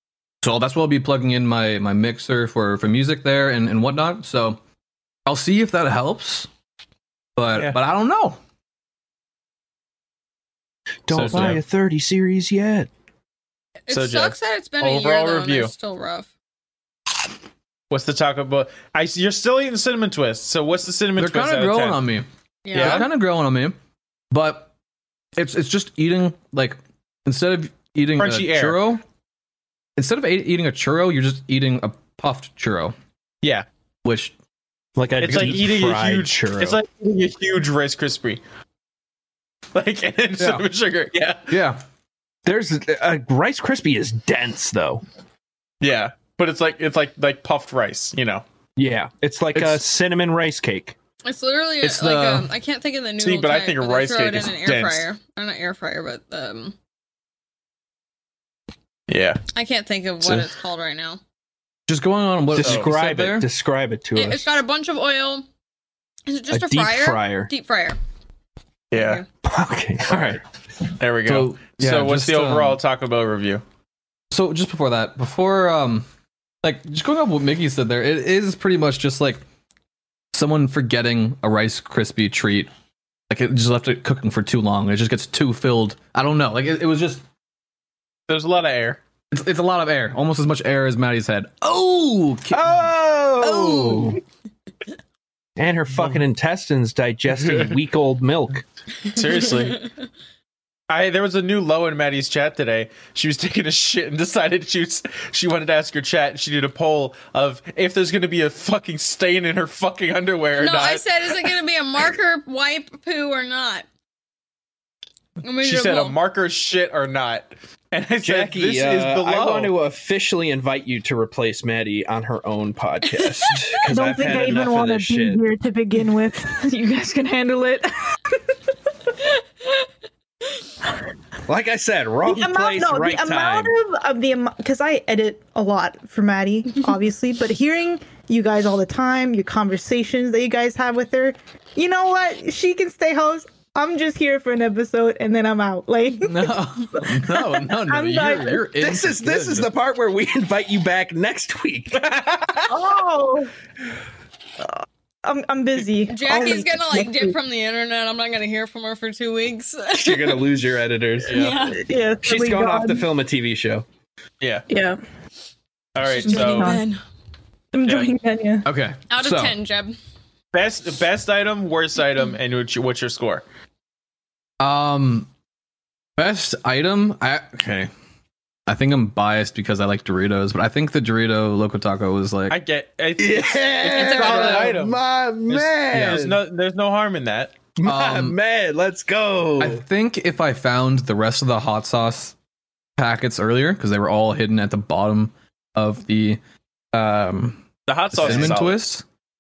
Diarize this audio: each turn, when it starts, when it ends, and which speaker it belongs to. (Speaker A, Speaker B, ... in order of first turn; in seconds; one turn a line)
Speaker A: 0.4-4.6
Speaker A: 5.2-6.5
Speaker A: 7.3-8.4
Speaker B: 11.1-12.9
Speaker A: 11.1-11.6
Speaker C: 11.1-11.6
Speaker D: 13.9-16.3
Speaker C: 13.9-15.7
Speaker C: 17.9-22.0
Speaker A: 21.2-23.8
Speaker D: 22.6-23.1
Speaker C: 22.7-23.1
Speaker A: 24.3-24.7
Speaker A: 25.4-29.0
Speaker C: 28.2-28.8
Speaker A: 29.9-32.9
Speaker A: 34.0-34.3
Speaker B: 35.0-36.8
Speaker C: 35.2-38.4
Speaker C: 39.7-41.5
Speaker A: 40.4-40.6
Speaker A: 41.5-41.8
Speaker B: 42.4-45.0
Speaker C: 45.8-48.4
Speaker B: 48.8-50.9
Speaker A: 49.5-49.8
Speaker D: 51.2-56.7
Speaker A: 51.8-52.5
Speaker C: 53.2-55.0
Speaker C: 59.1-59.4
Speaker D: 59.5-61.2
Speaker A: 61.9-63.5
Speaker B: 62.5-64.6
Speaker C: 62.6-62.9
Speaker D: 64.1-65.5
Speaker D: 66.3-68.0
Speaker B: 66.5-67.5
Speaker C: 68.9-69.2
Speaker D: 68.9-69.2
Speaker B: 69.4-70.4
Speaker C: 71.0-73.6
Speaker A: 71.2-72.8
Speaker A: 74.3-76.1
Speaker A: 76.6-79.4
Speaker A: 80.3-82.7
Speaker A: 83.3-87.2
Speaker C: 88.3-89.0
Speaker A: 89.3-92.8
Speaker B: 92.5-94.2
Speaker A: 93.4-94.1
Speaker B: 95.6-98.6
Speaker C: 99.0-99.8
Speaker C: 100.9-111.5
Speaker D: 110.6-113.8
Speaker D: 115.4-116.2
Speaker C: 115.6-119.7
Speaker B: 118.2-125.4
Speaker E: 123.8-128.3
Speaker B: 131.5-133.7
Speaker E: 132.2-148.7
Speaker A: 146.2-149.7
Speaker B: 148.8-152.0
Speaker C: 151.9-152.7
Speaker E: 152.7-153.5
Speaker E: 154.6-157.3
Speaker D: 156.1-160.5
Speaker B: 159.9-161.5
Speaker C: 161.3-161.6
Speaker D: 161.3-161.8
Speaker E: 161.7-163.1
Speaker B: 162.2-163.8
Speaker C: 164.4-164.7
Speaker E: 164.7-165.0
Speaker C: 165.9-166.7
Speaker E: 166.2-166.8
Speaker D: 166.2-167.0
Speaker E: 167.7-168.7
Speaker A: 168.6-169.6
Speaker D: 169.1-169.9
Speaker C: 170.5-173.4
Speaker A: 174.6-175.3
Speaker A: 176.2-177.9
Speaker A: 178.7-182.6
Speaker C: 182.5-187.6
Speaker B: 183.2-186.4
Speaker D: 184.0-184.6
Speaker B: 187.8-189.8
Speaker A: 187.8-188.4
Speaker A: 189.6-192.3
Speaker A: 193.0-196.4
Speaker A: 196.9-199.0
Speaker C: 197.9-198.8
Speaker B: 198.2-198.5